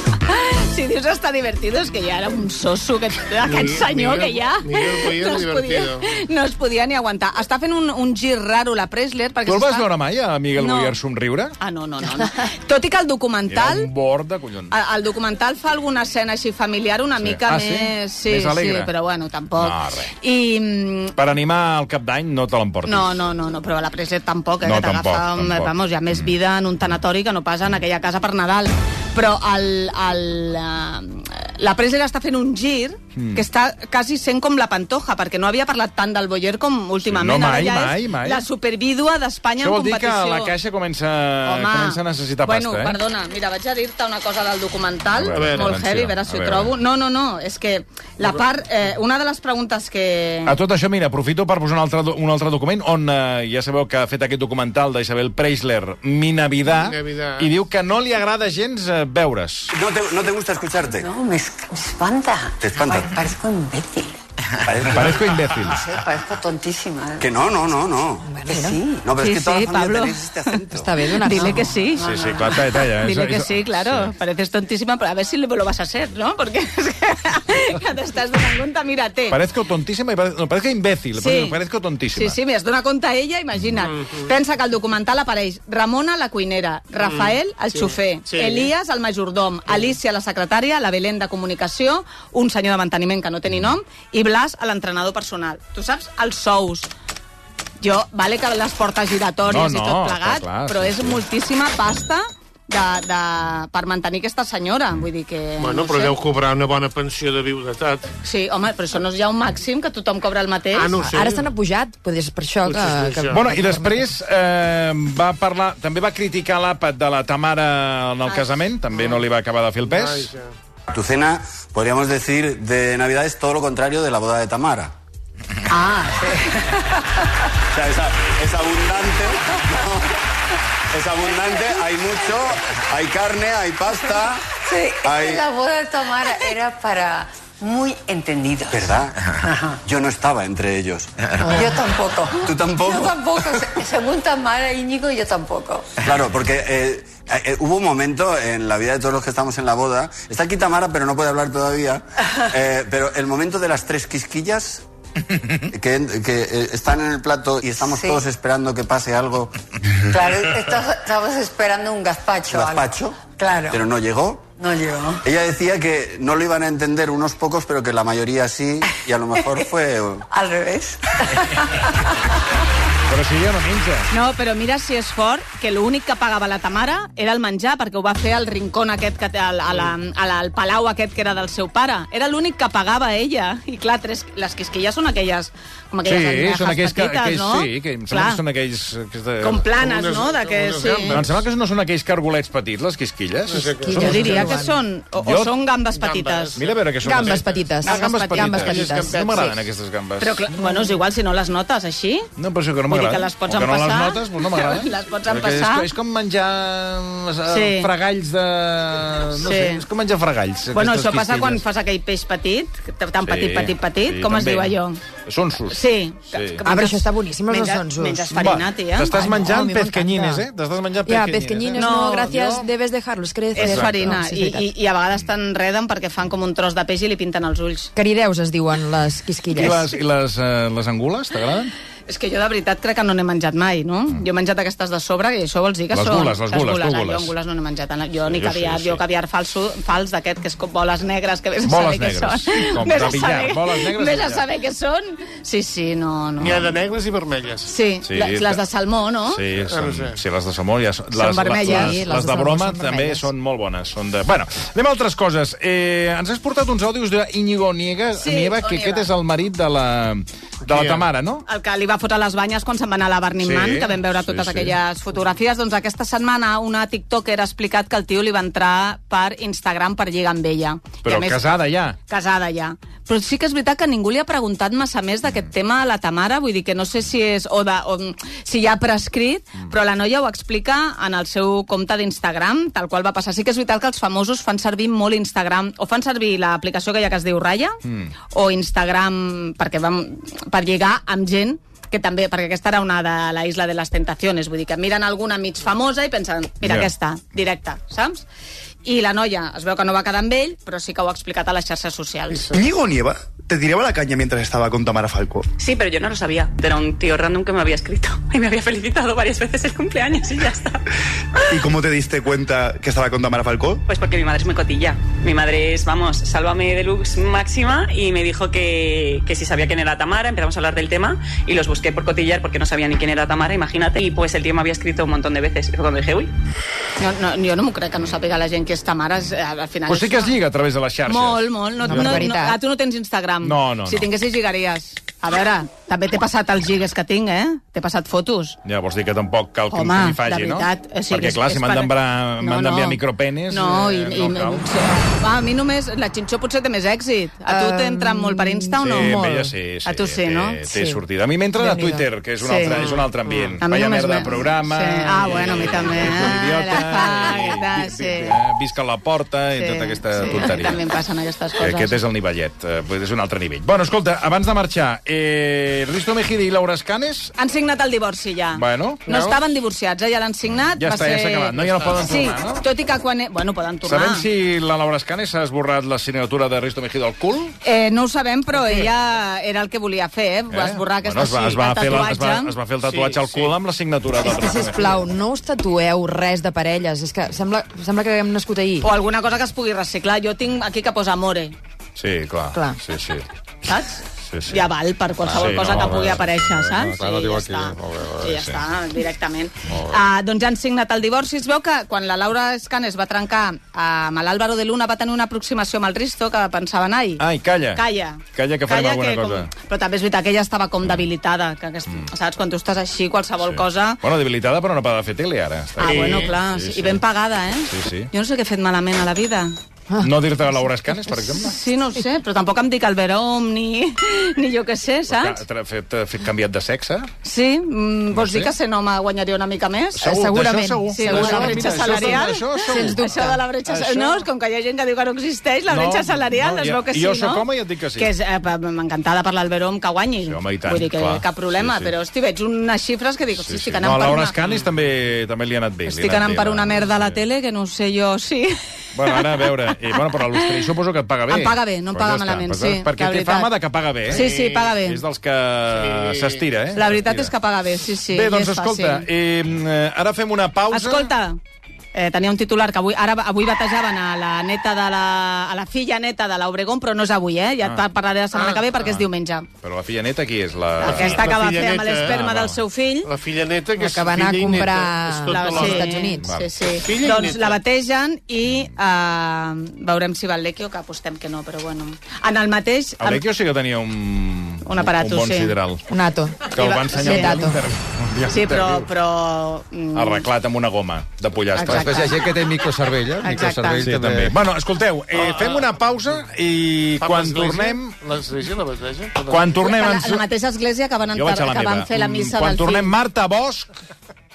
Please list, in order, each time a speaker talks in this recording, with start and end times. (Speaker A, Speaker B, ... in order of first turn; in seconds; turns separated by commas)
Speaker A: 0.3-9.9, Speaker B: 3.4-6.1, Speaker C: 9.5-11.6, Speaker A: 10.6-10.9, Speaker A: 11.6-13.9, Speaker C: 13.5-14.7, Speaker A: 14.7-21.2, Speaker C: 17.2-18.9, Speaker C: 19.6-20.1, Speaker C: 21.2-23.2, Speaker A: 22.9-40.5, Speaker C: 24.6-26.3, Speaker C: 33.2-33.4, Speaker C: 37.1-38.5, Speaker C: 39.6-43.0, Speaker A: 41.5-50.5, Speaker C: 45.2-46.7, Speaker B: 45.3-45.8, Speaker C: 50.5-59.7, Speaker B: 56.7-57.5, Speaker D: 59.7-61.1, Speaker E: 61.0-64.2, Speaker D: 62.6-63.1, Speaker D: 64.6-65.4, Speaker C: 64.9-65.9, Speaker E: 64.9-67.4, Speaker D: 67.2-68.3, Speaker F: 68.3-68.8, Speaker E: 68.5-69.1, Speaker D: 69.0-70.9, Speaker A: 69.2-70.6, Speaker F: 70.7-71.7, Speaker A: 71.1-79.4, Speaker E: 71.4-72.6, Speaker C: 72.0-74.1, Speaker C: 79.3-82.4, Speaker A: 81.2-81.6, Speaker A: 82.2-96.9, Speaker B: 83.8-84.3, Speaker B: 87.0-88.7, Speaker A: 97.8-106.2, Speaker C: 99.5-101.2, Speaker B: 105.6-108.1, Speaker A: 108.2-111.0, Speaker B: 110.7-111.5, Speaker F: 111.0-114.0, Speaker B: 112.7-113.5, Speaker C: 113.3-120.3, Speaker B: 119.9-120.5, Speaker D: 120.9-124.9, Speaker E: 125.7-127.1, Speaker D: 127.7-130.1, Speaker D: 130.9-135.4, Speaker E: 134.6-139.8, Speaker D: 138.7-139.3, Speaker D: 139.8-141.6, Speaker F: 141.4-141.8, Speaker E: 141.4-146.0, Speaker D: 142.4-143.2, Speaker D: 146.0-154.8, Speaker D: 155.7-159.6, Speaker E: 157.8-158.2, Speaker E: 160.0-163.8, Speaker D: 162.5-164.5, Speaker E: 164.6-165.3, Speaker D: 165.2-170.2, Speaker E: 169.3-169.7, Speaker E: 170.3-172.3, Speaker C: 173.1-174.1, Speaker A: 174.1-188.4, Speaker C: 186.1-189.7, Speaker A: 189.4-191.3, Speaker B: 189.7-191.3, Speaker C: 191.1-194.6, Speaker B: 193.5-194.1, Speaker F: 193.8-194.8, Speaker A: 194.0-196.6, Speaker C: 195.2-195.5, Speaker B: 195.9-197.6, Speaker C: 196.6-200.6, Speaker F: 197.0-199.5, Speaker A: 197.8-199.6, Speaker A: 200.2-202.3, Speaker C: 202.4-211.6, Speaker A: 202.9-205.9, Speaker A: 207.5-207.9, Speaker A: 209.4-209.8, Speaker A: 210.7-215.0, Speaker C: 213.3-215.8, Speaker A: 215.7-219.3, Speaker C: 216.3-216.6, Speaker F: 216.6-220.4, Speaker C: 218.4-222.7, Speaker F: 221.1-224.7, Speaker A: 221.7-222.5, Speaker A: 223.5-227.9, Speaker C: 223.6-224.2, Speaker F: 227.9-229.9, Speaker C: 229.5-231.7, Speaker A: 232.1-246.7, Speaker C: 235.9-237.3, Speaker C: 238.2-239.0, Speaker C: 241.7-244.4, Speaker B: 246.4-247.7, Speaker A: 247.7-249.4, Speaker C: 248.1-248.6, Speaker C: 249.3-261.5, Speaker B: 249.7-250.2, Speaker A: 251.1-252.0, Speaker F: 251.6-253.3, Speaker A: 258.2-259.1, Speaker B: 260.7-261.1, Speaker A: 261.5-271.4, Speaker C: 263.4-264.8, Speaker C: 271.0-272.0, Speaker A: 272.1-287.8, Speaker C: 287.8-288.1, Speaker A: 288.3-298.2, Speaker C: 296.6-296.9, Speaker A: 298.9-302.5, Speaker G: 302.5-305.5, Speaker H: 305.6-310.8, Speaker G: 311.5-313.8, Speaker H: 313.9-326.3, Speaker A: 327.0-330.4, Speaker C: 329.9-332.2, Speaker A: 331.1-338.6, Speaker F: 331.8-332.6, Speaker C: 333.4-334.1, Speaker C: 338.6-344.7, Speaker A: 339.7-343.0, Speaker A: 343.5-349.2, Speaker F: 347.5-349.5, Speaker C: 348.8-360.8, Speaker A: 349.9-350.6, Speaker F: 350.7-351.0, Speaker F: 351.6-352.1, Speaker A: 352.4-352.9, Speaker B: 352.7-353.6, Speaker A: 353.6-358.4, Speaker A: 359.6-362.0, Speaker C: 361.6-367.3, Speaker A: 367.4-374.2, Speaker C: 368.6-369.3, Speaker C: 370.8-372.6, Speaker C: 373.9-377.6, Speaker A: 377.6-382.5, Speaker B: 378.6-378.9, Speaker C: 380.5-385.0, Speaker B: 382.9-383.5, Speaker F: 384.2-388.9, Speaker A: 388.8-391.6, Speaker C: 392.0-393.3, Speaker F: 392.5-392.8, Speaker A: 393.6-407.2, Speaker C: 394.3-394.6, Speaker I: 395.2-398.4, Speaker C: 395.4-396.3, Speaker I: 399.7-400.0, Speaker C: 407.2-409.5, Speaker A: 407.8-414.0, Speaker C: 413.4-417.0, Speaker A: 415.8-419.6, Speaker C: 417.7-418.1, Speaker C: 420.0-421.6, Speaker A: 421.4-425.4, Speaker C: 425.1-427.1, Speaker A: 427.2-430.3, Speaker C: 428.1-428.5, Speaker C: 429.9-433.1, Speaker F: 430.0-433.4, Speaker A: 430.9-437.4, Speaker C: 433.7-434.3, Speaker C: 435.7-438.1, Speaker A: 438.0-444.4, Speaker C: 440.3-441.9, Speaker C: 443.4-447.2, Speaker A: 445.9-449.4, Speaker C: 448.9-454.2, Speaker A: 451.3-453.5, Speaker A: 454.1-455.0, Speaker B: 454.1-454.8, Speaker C: 454.8-457.3, Speaker B: 455.7-456.5, Speaker A: 456.8-459.1, Speaker C: 458.1-461.1, Speaker A: 460.7-461.4, Speaker A: 461.9-469.5, Speaker C: 468.5-469.1, Speaker C: 469.6-471.3, Speaker B: 470.8-472.2, Speaker A: 470.8-473.1, Speaker C: 472.0-472.6, Speaker B: 473.1-475.9, Speaker F: 473.8-476.3, Speaker A: 475.3-483.2, Speaker C: 476.2-476.5, Speaker B: 476.8-477.6, Speaker C: 483.0-485.9, Speaker A: 484.6-485.5, Speaker F: 485.9-487.6, Speaker C: 486.5-488.9, Speaker A: 486.5-487.4, Speaker A: 488.3-490.2, Speaker C: 489.9-492.2, Speaker A: 491.6-492.2, Speaker I: 491.6-494.4, Speaker A: 493.2-493.8, Speaker C: 493.8-498.0, Speaker B: 495.1-495.7, Speaker B: 497.0-499.6, Speaker C: 499.3-500.2, Speaker A: 499.6-502.9, Speaker C: 501.1-503.7